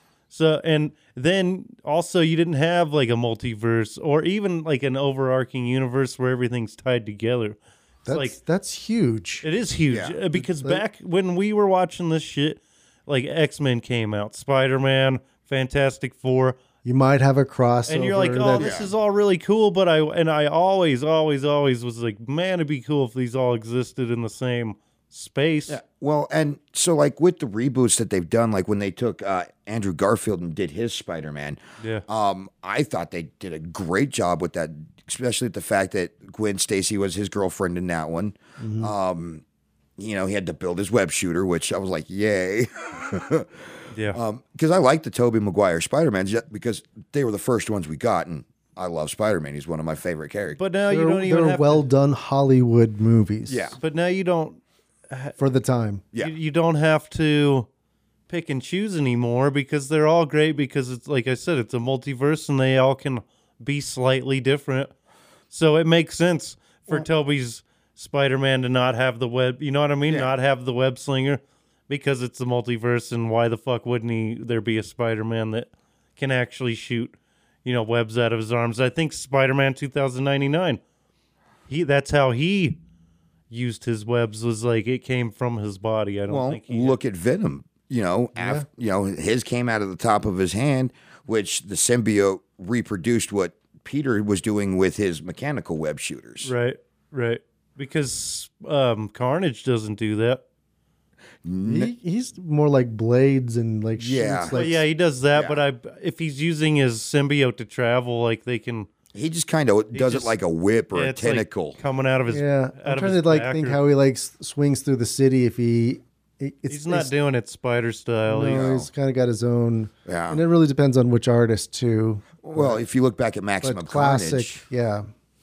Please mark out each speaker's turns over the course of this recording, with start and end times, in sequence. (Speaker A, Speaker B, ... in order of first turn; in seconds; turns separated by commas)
Speaker A: 0.3-8.3, Speaker B: 8.1-9.4, Speaker A: 9.4-16.6, Speaker C: 9.9-10.2, Speaker B: 10.4-10.8, Speaker B: 16.8-18.7, Speaker A: 17.9-25.8, Speaker C: 18.6-18.9, Speaker C: 25.7-39.4, Speaker B: 38.6-38.9, Speaker C: 40.0-50.6, Speaker A: 43.9-44.2, Speaker A: 50.6-51.8, Speaker B: 50.9-53.8, Speaker C: 53.5-53.8, Speaker A: 53.8-55.4, Speaker B: 55.4-56.0, Speaker A: 56.2-57.7, Speaker A: 58.3-64.9, Speaker A: 65.5-80.8, Speaker A: 81.7-82.8, Speaker A: 83.5-87.0, Speaker C: 86.3-96.5, Speaker B: 88.3-88.6, Speaker A: 96.4-100.4, Speaker C: 101.4-101.9, Speaker B: 101.6-104.8, Speaker C: 104.0-104.6, Speaker A: 104.5-108.9, Speaker C: 105.3-105.6, Speaker C: 109.1-111.8, Speaker A: 109.9-110.4, Speaker A: 110.9-113.8, Speaker B: 112.3-117.1, Speaker A: 116.7-118.6, Speaker B: 118.3-122.8, Speaker C: 118.5-118.9, Speaker C: 120.0-120.4, Speaker C: 122.4-124.6, Speaker B: 123.6-125.1